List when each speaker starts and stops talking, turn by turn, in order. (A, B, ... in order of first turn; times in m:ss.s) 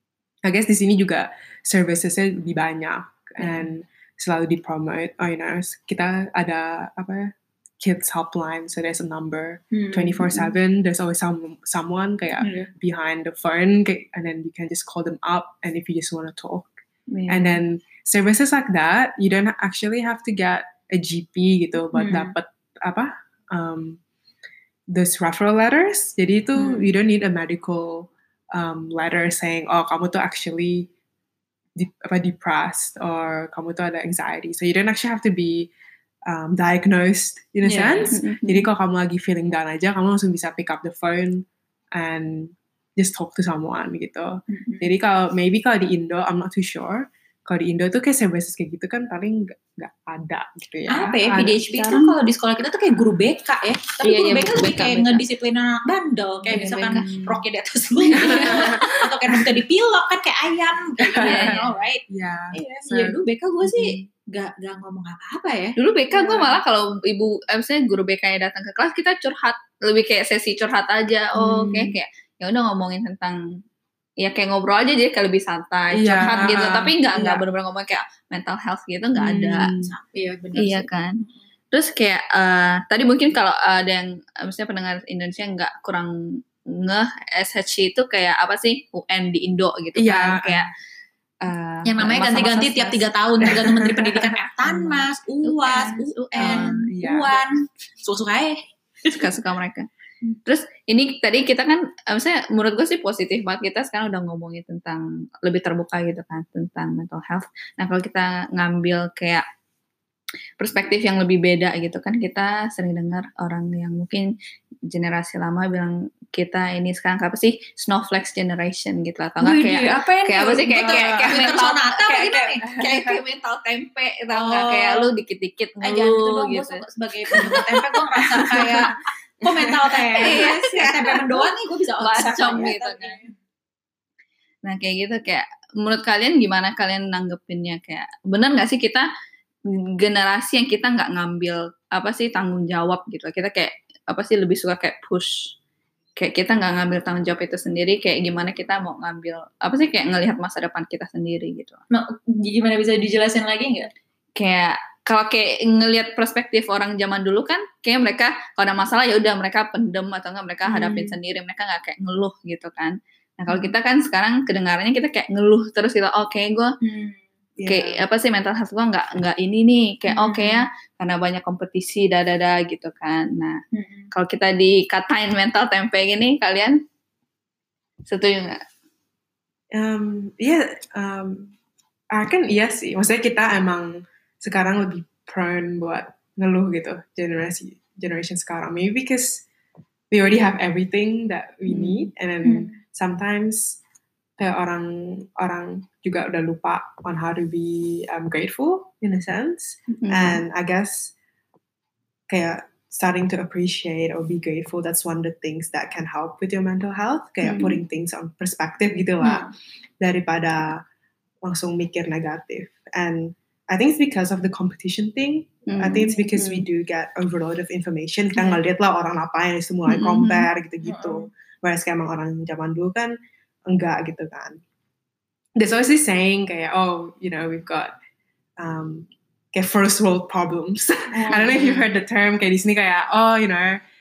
0:00.4-0:16.7 A
0:03.4-0:03.7 B
0:09.7-0:10.5 B
0:12.4-0:12.7 B
0:17.1-0:17.6 B
0:17.3-0:24.0 A
0:21.9-0:22.4 B
0:24.9-0:30.9 A
0:26.6-0:26.9 B
0:31.8-0:35.7 A
0:36.3-0:52.2 A
0:37.6-0:38.2 B
0:38.1-0:38.7 C
0:44.5-0:44.9 B
0:50.9-1:05.8 B
0:54.0-0:55.2 C
0:56.5-0:57.0 C
0:56.5-0:57.4 A
0:58.1-0:59.1 C
0:58.1-0:59.4 A
1:01.1-1:04.1 A
1:01.2-1:01.8 C
1:05.8-1:13.6 C
1:06.1-1:06.6 A
1:11.4-1:12.0 A
1:14.2-1:19.7 C
1:15.9-1:17.4 A
1:19.2-1:19.9 A
1:19.8-1:21.4 B
1:20.6-1:21.2 C
1:21.7-1:30.7 C
1:30.0-1:30.7 A
1:31.4-1:33.1 C
1:31.9-1:39.2 B
1:33.4-1:34.3 A
1:34.6-1:36.7 C
1:36.4-1:37.4 A
1:39.1-1:39.9 C
1:40.5-1:49.4 C
1:50.6-1:54.3 C
1:54.9-2:08.8 C
1:59.4-2:02.6 B
2:00.8-2:01.6 A
2:02.7-2:03.2 A
2:04.3-2:05.1 B
2:05.8-2:13.3 B
2:07.3-2:07.6 A
2:08.4-2:08.9 A
2:09.6-2:10.9 A
2:10.2-2:11.4 C
2:12.0-2:13.2 C
2:12.2-2:12.6 A
2:14.6-2:19.1 C
2:20.0-2:25.6 C
2:26.2-2:31.8 C
2:31.9-2:33.9 B
2:34.4-2:46.8 C
2:40.7-2:41.2 A
2:43.5-2:43.7 B
2:46.8-2:47.2 B
2:47.6-2:48.0 A
2:47.6-2:53.6 C
2:50.1-2:50.7 B
2:53.7-2:54.1 B
2:54.1-2:56.8 C
2:58.1-2:58.6 C
2:59.7-3:01.5 A
3:02.1-3:09.4 A
3:10.1-3:13.8 A
3:11.7-3:12.6 C
3:12.4-3:12.7 B
3:14.4-3:21.1 A
3:20.0-3:20.4 C
3:22.3-3:29.5 A
3:27.4-3:27.8 C
3:29.2-3:29.5 B
3:30.0-3:30.8 A
3:31.4-3:43.2 A
3:35.7-3:36.6 C
3:39.9-3:40.5 C
3:40.8-3:41.3 B
3:43.7-3:44.6 A
3:45.6-3:47.9 A
3:48.6-3:53.8 A
3:51.2-3:51.6 B
3:51.3-3:51.9 C